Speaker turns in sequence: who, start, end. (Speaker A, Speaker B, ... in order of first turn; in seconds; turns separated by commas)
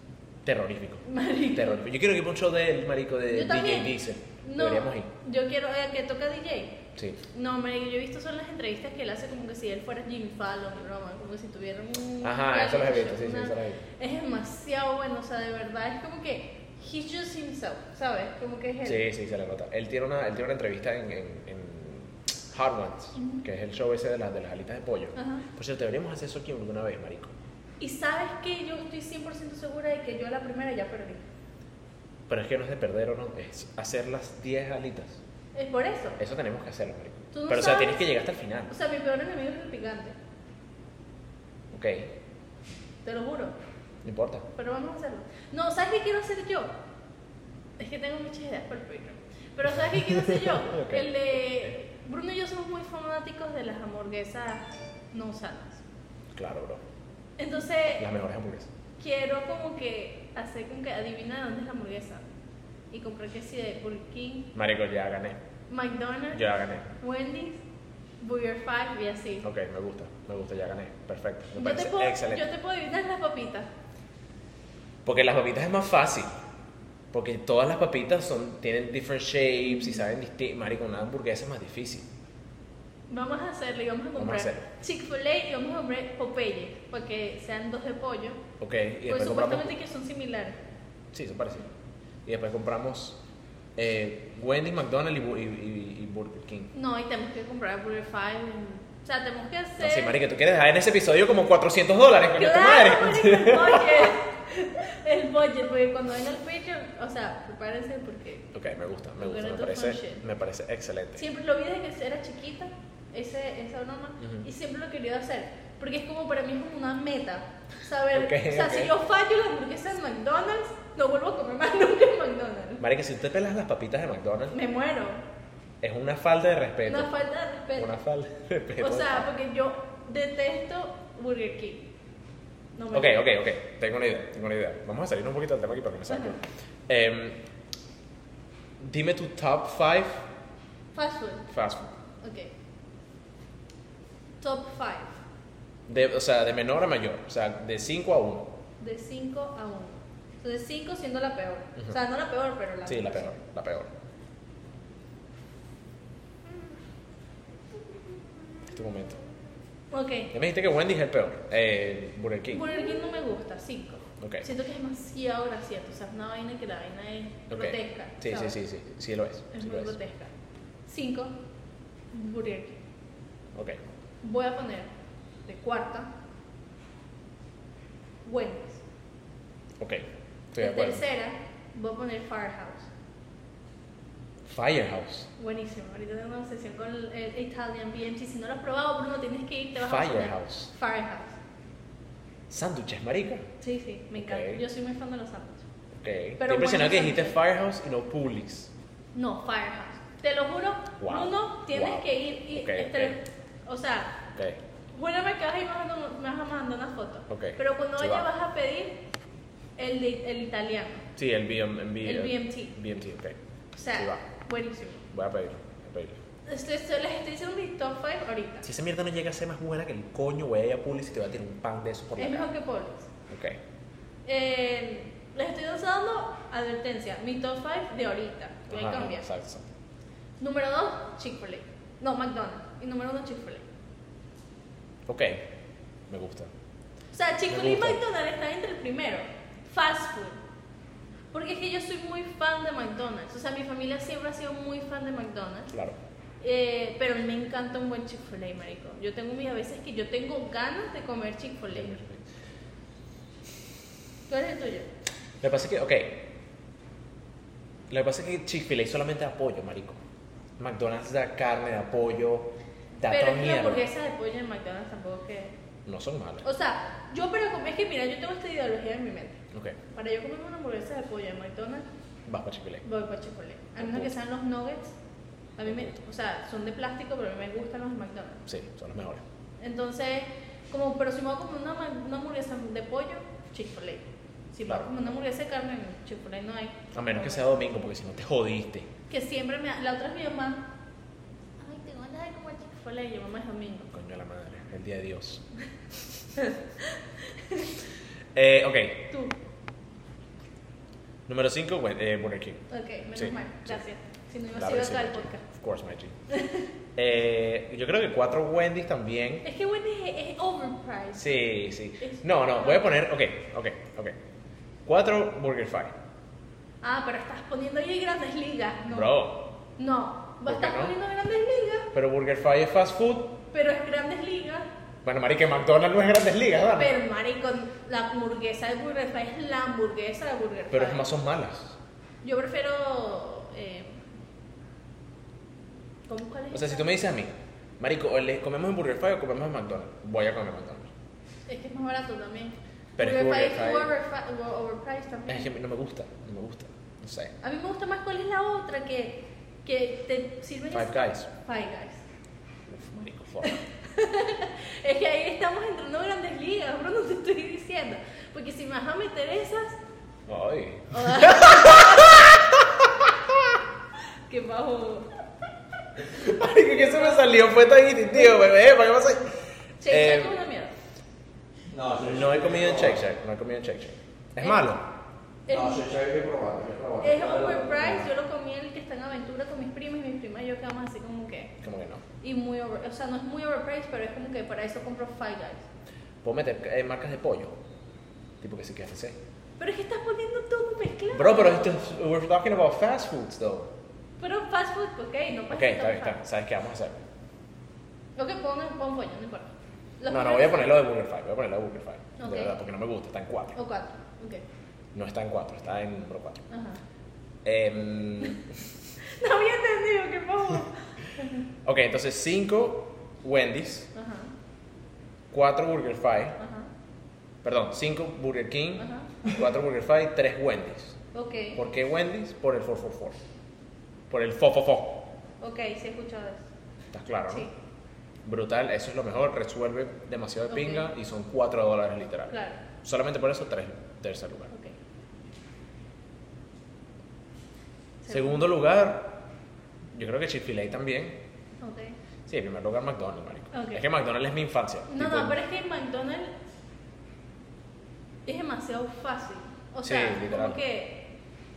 Speaker A: 0.5-5.1, Speaker B: 1.0-1.8, Speaker B: 3.3-19.1, Speaker A: 7.0-7.2, Speaker A: 12.2-13.8, Speaker A: 18.8-27.3, Speaker B: 23.2-23.4, Speaker B: 25.2-25.4, Speaker B: 27.8-31.3, Speaker A: 32.3-35.2, Speaker B: 35.5-36.2, Speaker A: 36.2-38.7, Speaker B: 37.3-38.2, Speaker B: 38.7-40.2, Speaker A: 41.7-42.1, Speaker B: 43.0-43.6, Speaker A: 44.0-44.5, Speaker B: 44.5-46.7, Speaker B: 47.8-55.8, Speaker A: 50.0-51.1, Speaker A: 56.4-56.8, Speaker B: 57.4-58.0, Speaker A: 58.0-58.7, Speaker B: 59.0-62.3, Speaker B: 62.9-64.5, Speaker A: 64.5-65.4, Speaker B: 65.7-67.6, Speaker A: 66.3-66.9, Speaker B: 68.2-69.5, Speaker A: 69.4-72.4, Speaker B: 71.6-73.7, Speaker A: 75.1-76.3, Speaker A: 77.1-82.1, Speaker B: 79.7-80.1, Speaker B: 83.1-88.4, Speaker A: 84.2-84.7, Speaker A: 88.6-89.8, Speaker B: 89.1-90.6, Speaker A: 91.1-91.7, Speaker A: 92.2-93.2, Speaker A: 93.8-96.7, Speaker B: 96.7-100.2, Speaker A: 99.8-104.1, Speaker B: 102.3-108.5, Speaker A: 108.5-111.2, Speaker B: 109.2-110.2, Speaker B: 111.2-122.8, Speaker A: 114.2-114.5, Speaker A: 118.1-119.0, Speaker A: 122.8-124.6, Speaker B: 124.5-125.2, Speaker A: 125.8-127.1, Speaker B: 126.8-127.9, Speaker A: 127.8-129.3, Speaker B: 128.8-131.9, Speaker B: 132.8-133.2, Speaker A: 132.9-137.5, Speaker B: 136.1-136.4, Speaker A: 138.8-140.3, Speaker B: 140.9-141.5, Speaker A: 141.5-141.9, Speaker B: 142.2-142.5, Speaker B: 144.4-145.2, Speaker A: 145.9-148.6, Speaker B: 148.8-153.3, Speaker A: 152.9-153.9, Speaker A: 158.7-159.2, Speaker B: 159.9-160.3, Speaker A: 160.3-162.8, Speaker B: 162.5-168.6, Speaker A: 164.2-164.5, Speaker A: 167.5-170.0, Speaker B: 169.5-170.3, Speaker B: 170.9-171.4, Speaker B: 172.1-172.8, Speaker A: 173.6-173.8, Speaker B: 174.2-174.9, Speaker B: 175.4-176.1, Speaker B: 178.2-178.8, Speaker A: 179.8-181.0, Speaker B: 180.6-182.9, Speaker A: 184.5-185.3, Speaker B: 185.4-191.4, Speaker A: 189.8-190.7, Speaker A: 192.5-193.5, Speaker B: 193.6-195.6, Speaker A: 194.1-194.6, Speaker A: 196.0-198.7, Speaker B: 196.4-197.4, Speaker B: 199.1-204.3, Speaker A: 201.0-203.2, Speaker A: 204.3-204.6, Speaker B: 204.9-209.0, Speaker A: 207.3-208.3, Speaker B: 209.8-211.1, Speaker A: 211.2-213.4, Speaker B: 212.0-212.8, Speaker B: 213.7-215.1, Speaker A: 213.9-214.2, Speaker A: 215.1-216.2, Speaker B: 216.5-218.7, Speaker A: 218.6-222.5, Speaker B: 222.2-223.1, Speaker A: 223.3-223.6, Speaker B: 224.2-229.2, Speaker A: 228.7-229.7, Speaker B: 230.4-233.7, Speaker A: 235.1-235.5, Speaker A: 236.1-236.5, Speaker B: 237.1-240.4, Speaker A: 237.5-238.0, Speaker B: 241.3-245.7, Speaker A: 245.7-246.0, Speaker B: 246.4-252.0, Speaker A: 251.7-252.2, Speaker B: 254.3-254.9, Speaker A: 255.4-256.3, Speaker A: 257.9-260.0, Speaker A: 260.6-263.9, Speaker B: 263.1-265.6, Speaker A: 265.9-266.5, Speaker B: 266.4-271.9, Speaker A: 269.5-269.8, Speaker A: 272.3-272.9, Speaker B: 272.8-275.0, Speaker A: 273.8-274.1, Speaker B: 275.6-278.4, Speaker A: 275.6-276.0, Speaker A: 278.5-279.2, Speaker B: 279.6-287.6, Speaker A: 284.6-284.9, Speaker A: 286.9-288.9, Speaker B: 289.1-290.7, Speaker B: 291.6-293.9, Speaker A: 293.9-295.4, Speaker B: 296.4-297.7, Speaker A: 298.3-299.1, Speaker A: 301.3-303.8, Speaker B: 302.7-305.4, Speaker A: 304.5-306.1, Speaker B: 306.3-306.7, Speaker A: 307.0-309.4, Speaker B: 309.4-311.4, Speaker A: 311.2-314.2, Speaker B: 312.0-313.0, Speaker A: 314.9-315.9, Speaker B: 316.8-319.1, Speaker A: 318.9-319.5, Speaker B: 319.8-321.9, Speaker A: 320.4-321.0, Speaker A: 321.9-323.4, Speaker B: 323.5-324.7, Speaker A: 325.0-326.9, Speaker B: 326.8-331.1, Speaker A: 330.7-331.8, Speaker B: 332.2-334.0, Speaker B: 336.1-337.0, Speaker A: 336.5-340.9, Speaker B: 341.5-345.5, Speaker A: 343.0-343.9, Speaker A: 345.3-347.3, Speaker B: 347.4-352.0, Speaker A: 350.7-351.3, Speaker A: 352.7-353.6, Speaker B: 353.4-359.8, Speaker A: 360.3-363.6, Speaker B: 360.9-362.4, Speaker B: 364.3-365.1, Speaker A: 366.0-370.4, Speaker B: 366.4-367.4, Speaker B: 368.1-368.5, Speaker B: 369.8-370.7, Speaker C: 371.7-373.0, Speaker A: 372.0-374.9, Speaker B: 374.4-374.7, Speaker B: 375.5-375.9, Speaker C: 375.5-378.1, Speaker B: 377.0-381.5, Speaker A: 381.6-382.0, Speaker B: 382.2-385.7, Speaker A: 386.2-387.6, Speaker A: 388.4-389.2, Speaker B: 389.6-391.8, Speaker A: 391.1-393.7, Speaker B: 394.2-396.2, Speaker A: 395.5-397.0, Speaker B: 398.2-400.8, Speaker A: 400.1-403.6, Speaker B: 402.2-402.6, Speaker B: 403.6-404.4, Speaker A: 404.9-406.4, Speaker B: 406.5-406.8, Speaker A: 407.4-408.7, Speaker B: 409.0-411.4, Speaker A: 411.6-413.9, Speaker B: 413.9-414.3, Speaker A: 415.3-416.4, Speaker B: 416.4-416.7, Speaker A: 417.4-421.0, Speaker B: 418.8-419.1, Speaker B: 421.1-421.6, Speaker A: 421.6-423.2, Speaker A: 424.1-425.1, Speaker B: 425.4-426.5, Speaker A: 426.9-427.5, Speaker A: 428.3-434.5, Speaker B: 430.5-430.9, Speaker B: 432.3-432.6, Speaker B: 438.0-438.4, Speaker A: 438.1-439.2, Speaker A: 439.9-441.2, Speaker B: 441.6-442.0, Speaker A: 442.3-445.4, Speaker B: 443.5-443.8, Speaker B: 444.9-446.4, Speaker B: 448.3-451.1, Speaker A: 449.8-450.6